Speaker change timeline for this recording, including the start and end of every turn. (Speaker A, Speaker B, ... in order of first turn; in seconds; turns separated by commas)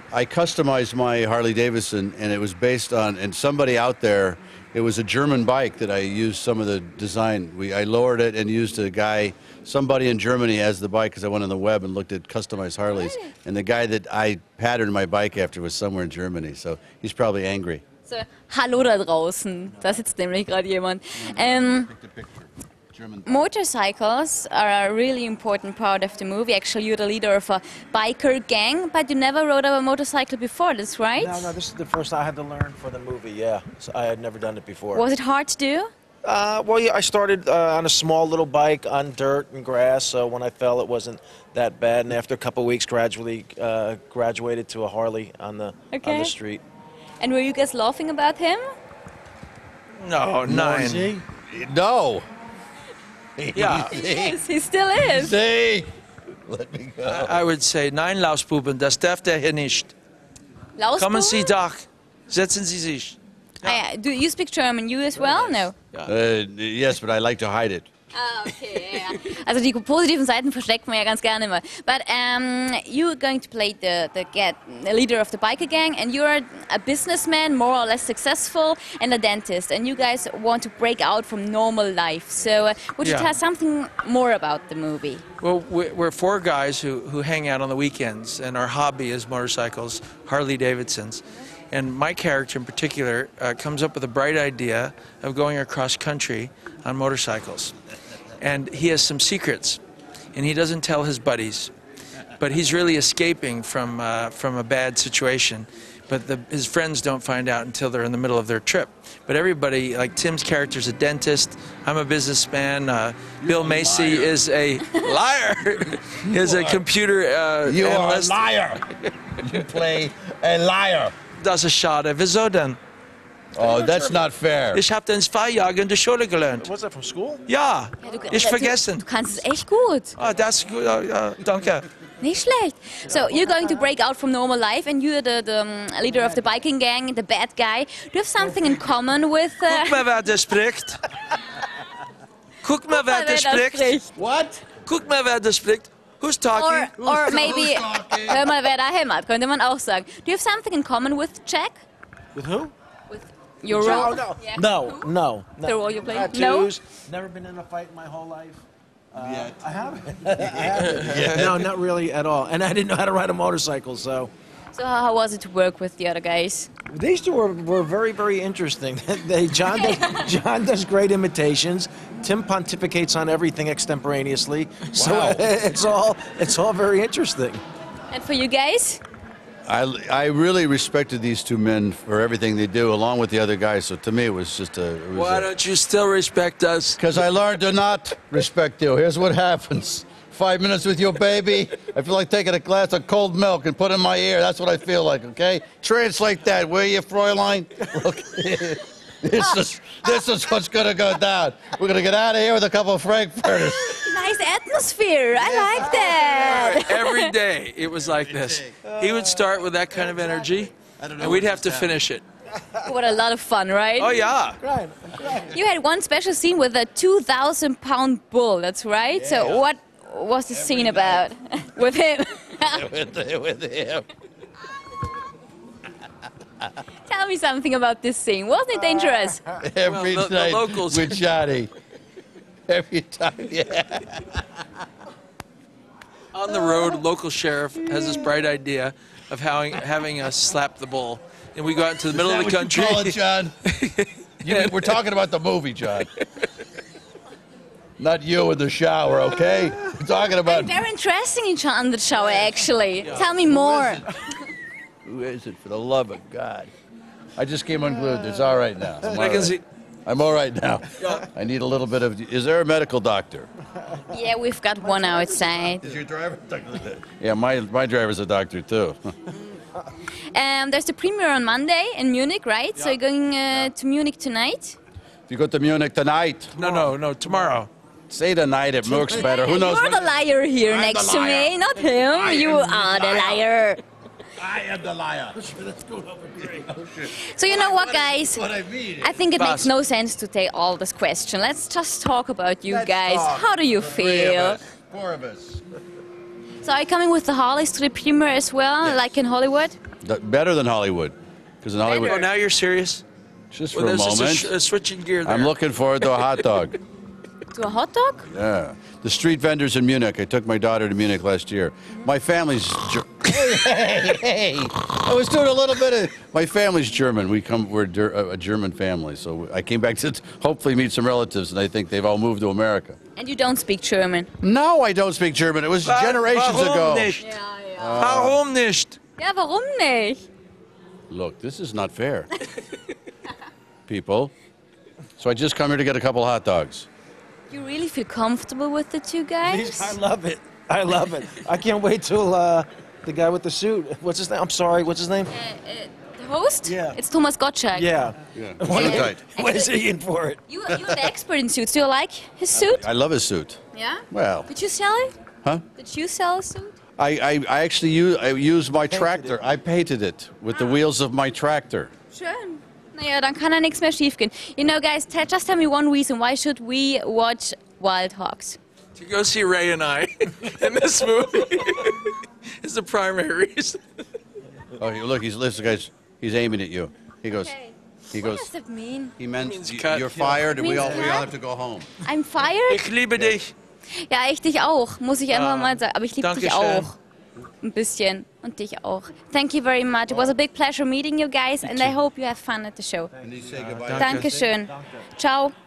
Speaker A: 0.1-17.8, Speaker B: 12.9-13.3, Speaker B: 18.1-21.9, Speaker A: 21.2-23.4, Speaker B: 23.2-31.5, Speaker C: 31.2-35.1, Speaker B: 34.9-35.9, Speaker C: 36.2-46.6, Speaker B: 45.9-46.3, Speaker B: 47.2-48.6, Speaker D: 50.0-51.2, Speaker C: 50.4-51.2, Speaker A: 51.3-52.2, Speaker A: 53.4-54.4, Speaker D: 53.5-53.9, Speaker B: 53.9-55.3, Speaker A: 55.0-55.9, Speaker A: 56.4-57.4, Speaker D: 57.0-59.9, Speaker B: 60.8-61.5, Speaker D: 61.0-63.8, Speaker B: 63.6-65.7, Speaker D: 65.2-66.1, Speaker A: 66.0-67.9, Speaker B: 68.1-85.2, Speaker D: 83.0-83.3, Speaker D: 85.4-97.7, Speaker D: 98.4-99.8, Speaker D: 100.3-101.7, Speaker D: 102.4-118.4, Speaker A: 113.4-114.4, Speaker A: 116.2-116.8, Speaker A: 117.6-121.1, Speaker D: 121.3-122.8, Speaker A: 123.5-124.8, Speaker D: 124.7-126.7, Speaker C: 126.6-127.4, Speaker D: 127.5-129.0, Speaker B: 128.0-130.2, Speaker D: 130.2-131.9, Speaker B: 132.2-140.0, Speaker C: 133.1-133.9, Speaker D: 139.7-141.0, Speaker D: 142.6-144.0, Speaker B: 142.9-144.1, Speaker A: 144.1-144.7, Speaker D: 144.8-146.9, Speaker B: 146.5-151.8, Speaker A: 147.0-148.4, Speaker C: 152.3-152.7, Speaker B: 153.1-155.1, Speaker C: 153.7-164.3, Speaker B: 155.6-156.7, Speaker A: 159.1-159.6, Speaker A: 160.2-161.7, Speaker D: 160.8-161.5, Speaker B: 164.7-166.7, Speaker C: 166.9-177.6, Speaker B: 169.8-170.1, Speaker A: 174.9-175.4, Speaker B: 178.1-179.0, Speaker A: 179.7-185.5, Speaker D: 185.1-187.0, Speaker A: 187.0-204.1, Speaker B: 203.8-207.3, Speaker A: 205.4-206.5, Speaker D: 206.2-212.2, Speaker A: 208.1-208.8, Speaker C: 208.8-209.4, Speaker A: 211.0-211.9, Speaker B: 212.8-214.2, Speaker D: 214.0-214.6, Speaker C: 214.6-215.5, Speaker B: 215.5-222.8, Speaker A: 219.1-219.7, Speaker A: 220.5-221.3, Speaker A: 222.7-224.1, Speaker B: 227.0-229.5, Speaker A: 229.5-231.7, Speaker D: 229.8-231.2, Speaker A: 232.7-234.7, Speaker D: 236.3-244.9, Speaker A: 242.1-243.5, Speaker A: 244.4-246.1, Speaker A: 248.0-250.8, Speaker B: 250.4-254.1, Speaker D: 253.0-253.3, Speaker A: 253.1-254.1, Speaker A: 255.1-256.7, Speaker A: 257.4-263.5, Speaker D: 259.0-259.6, Speaker D: 261.0-261.2, Speaker B: 264.1-265.8, Speaker C: 264.8-265.4, Speaker A: 265.6-269.1, Speaker B: 270.3-274.8, Speaker A: 275.3-276.5, Speaker D: 276.5-277.7, Speaker A: 278.1-283.5, Speaker B: 279.0-283.8, Speaker A: 284.4-289.2, Speaker B: 287.1-288.4, Speaker B: 289.0-294.6, Speaker D: 289.3-289.7, Speaker A: 292.6-295.6, Speaker B: 296.6-299.8, Speaker A: 298.8-299.1, Speaker A: 300.0-302.3, Speaker D: 301.9-303.0, Speaker B: 301.9-302.2, Speaker A: 303.5-304.5, Speaker D: 303.7-306.4, Speaker A: 305.2-306.8, Speaker B: 307.5-308.3, Speaker A: 308.3-323.0, Speaker B: 323.1-324.3, Speaker A: 324.4-327.2, Speaker D: 325.8-327.4, Speaker B: 327.2-328.1, Speaker A: 327.8-328.4, Speaker D: 327.9-329.0, Speaker B: 329.2-330.2, Speaker A: 331.1-332.3, Speaker A: 333.9-334.3, Speaker A: 335.2-336.9, Speaker B: 337.5-339.9, Speaker C: 339.4-345.3, Speaker B: 345.3-347.9, Speaker C: 346.6-347.0, Speaker C: 347.7-350.4, Speaker A: 348.3-349.2, Speaker B: 348.7-349.7, Speaker B: 350.5-352.8, Speaker A: 352.5-353.6, Speaker B: 353.7-355.1, Speaker A: 354.1-354.5, Speaker B: 355.8-356.7, Speaker A: 357.0-361.9, Speaker C: 358.9-359.3, Speaker B: 362.1-368.6, Speaker D: 368.9-373.8, Speaker A: 374.8-377.5, Speaker B: 377.3-379.1, Speaker A: 378.1-378.5, Speaker A: 379.2-381.9, Speaker D: 379.4-381.1, Speaker B: 380.5-381.3, Speaker B: 382.0-382.9, Speaker D: 382.7-383.5, Speaker B: 384.0-386.9, Speaker D: 385.3-386.9, Speaker B: 387.6-393.1, Speaker D: 391.6-391.9, Speaker C: 393.1-395.1, Speaker A: 393.2-394.3, Speaker D: 393.8-394.4, Speaker B: 394.0-395.5